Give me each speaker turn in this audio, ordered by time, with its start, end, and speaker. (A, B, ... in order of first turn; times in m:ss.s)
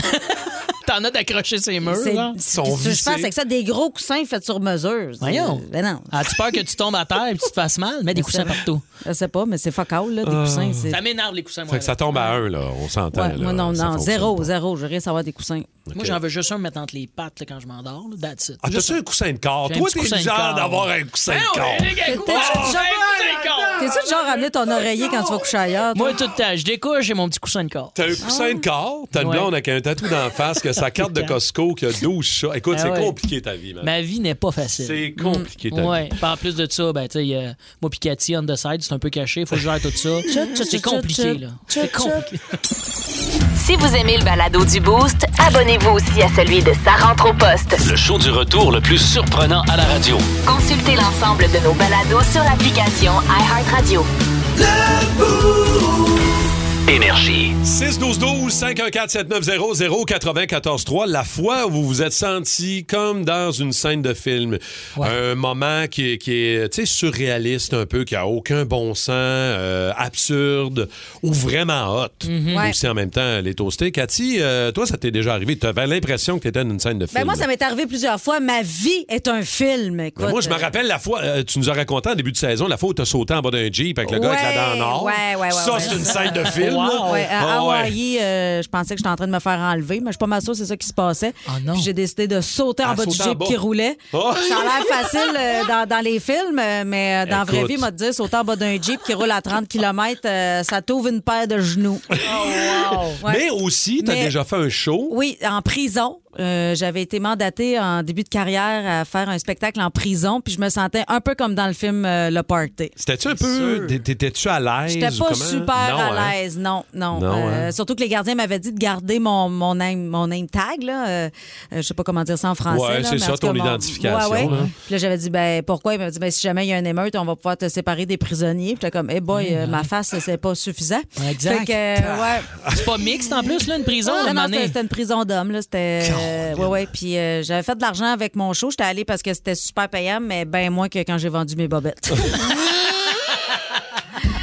0:00.2-0:02.4 A
0:01.9-0:06.1 B
0:02.5-0:03.3 C
0:05.2-0:08.8 A
0:08.1-0:11.0 B
0:10.2-0:10.9 C
0:10.9-0:12.3 A
0:11.7-0:14.5 C
0:13.1-0:15.7 B
0:15.9-0:16.2 C
0:15.9-0:19.0 A
0:18.6-0:22.9 C
0:19.6-0:24.4 A
0:22.0-0:22.9 B
0:23.8-0:26.2 B
0:25.9-0:27.9 A
0:27.9-0:33.9 C
0:28.2-0:28.6 B
0:29.2-0:29.5 A
0:30.9-0:31.3 A
0:32.7-0:33.1 A
0:33.8-0:35.1 A
0:34.8-0:36.2 C
0:35.2-0:35.5 B
0:35.7-0:42.4 A
0:40.3-0:42.3 B
0:43.6-0:47.8 D
0:47.8-0:50.3 E
0:50.4-0:54.1 D
0:56.9-0:57.5 E
0:57.6-1:17.4 C
1:12.2-1:12.7 A
1:17.1-1:20.7 B
1:20.2-1:27.9 C
1:24.1-1:42.2 B
1:25.7-1:27.2 A
1:31.5-1:31.9 A
1:32.8-1:33.6 C
1:34.1-1:35.3 C
1:37.2-1:37.9 C
1:42.2-1:45.1 C
1:42.9-1:43.1 A
1:43.2-1:43.4 B
1:44.0-1:44.3 B
1:45.1-1:53.0 B
1:53.0-1:56.4 C
1:53.4-1:53.8 A
1:54.9-2:12.5 B
1:57.1-1:57.7 C
2:02.7-2:04.7 C
2:09.3-2:09.9 A
2:11.2-2:11.8 A
2:12.0-2:12.9 C
2:12.7-2:14.7 A
2:14.0-2:22.4 B
2:16.0-2:16.7 C